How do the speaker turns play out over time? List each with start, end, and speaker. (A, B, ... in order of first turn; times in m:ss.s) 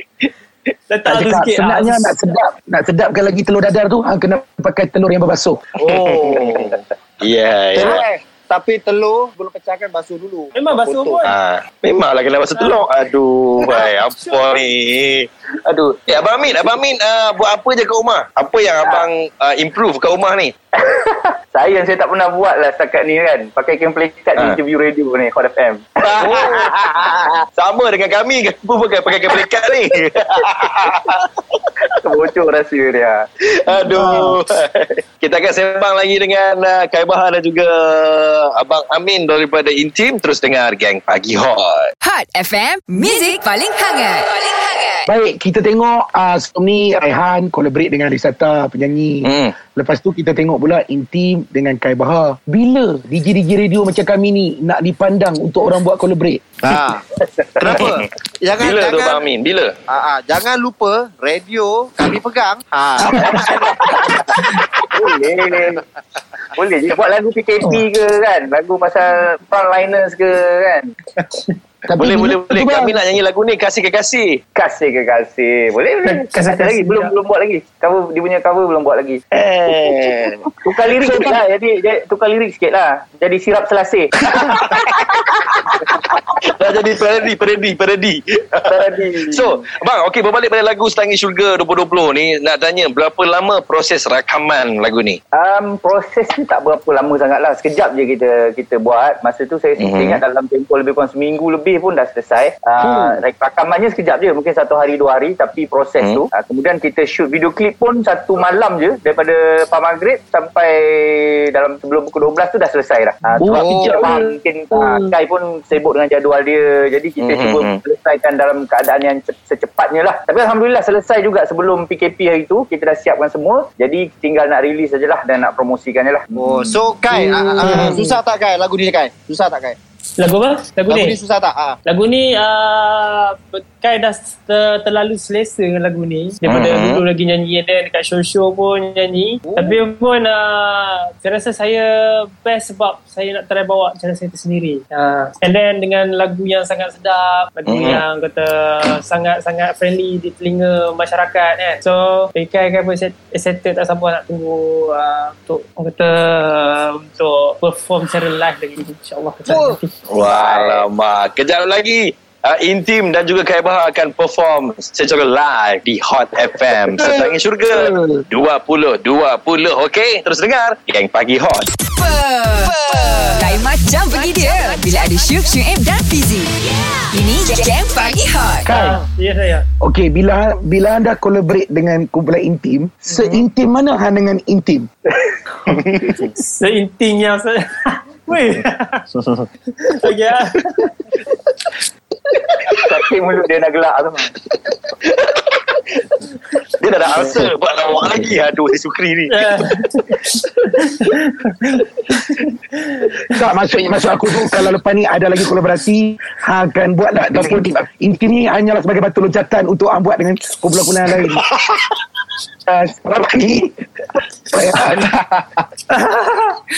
0:00.9-0:02.2 A
0:01.0-0:05.6 B
0:05.8-0:06.7 C
0:05.8-0:08.0 D
0:07.7-0:11.2 C
0:10.5-0:11.3 A
0:11.2-0:20.5 D
0:12.5-0:12.9 A
0:13.9-0:14.6 A
0:20.8-0:26.6 E
0:26.0-0:26.9 D
0:27.6-0:31.3 D
0:32.0-0:33.2 E
0:33.6-0:41.9 D
0:33.9-0:34.3 B
0:42.0-0:45.0 F
0:45.0-0:56.4 B
0:49.2-0:49.5 D
0:56.6-0:57.0 C
0:57.6-0:59.2 C
0:57.7-0:58.0 D
0:58.6-0:59.7 D
0:59.9-1:03.7 C
1:03.0-1:03.5 B
1:04.9-1:05.8 E
1:06.6-1:10.8 E
1:11.2-1:11.5 A
1:11.8-1:13.0 B
1:12.0-1:14.4 D
1:14.6-1:19.2 E
1:16.0-1:17.1 A
1:19.3-1:20.4 D
1:20.6-1:24.1 E
1:24.3-1:28.8 D
1:28.7-1:29.5 E
1:29.3-1:35.2 D
1:35.3-2:06.2 E
1:39.8-1:40.2 D
1:42.8-1:43.2 B
1:53.3-1:55.1 B
1:53.5-1:54.2 C
1:57.2-1:57.8 D
2:06.3-2:09.8 C
2:07.1-2:07.8 B
2:07.6-2:08.0 A
2:10.2-2:11.2 A
2:10.9-2:11.8 C
2:11.8-2:21.8 A
2:16.5-2:17.0 D
2:19.4-2:19.8 C
2:22.4-2:39.9 A
2:27.7-2:28.0 D
2:39.4-2:40.8 C
2:40.1-2:51.7 D
2:46.9-2:48.2 B
2:52.0-2:56.5 F
2:52.8-2:53.6 A
2:57.1-2:58.7 F
2:58.6-2:59.0 B
2:58.7-2:59.6 A
2:59.8-3:04.9 B
3:03.1-3:03.4 A
3:05.9-3:06.2 D
3:06.2-3:09.0 A
3:09.9-3:10.9 A
3:12.8-3:14.3 E
3:15.1-3:15.6 D
3:16.8-3:19.3 D
3:19.3-3:23.4 A
3:23.3-3:31.4 B
3:32.7-3:33.7 B
3:34.5-3:35.2 B
3:35.9-3:36.6 A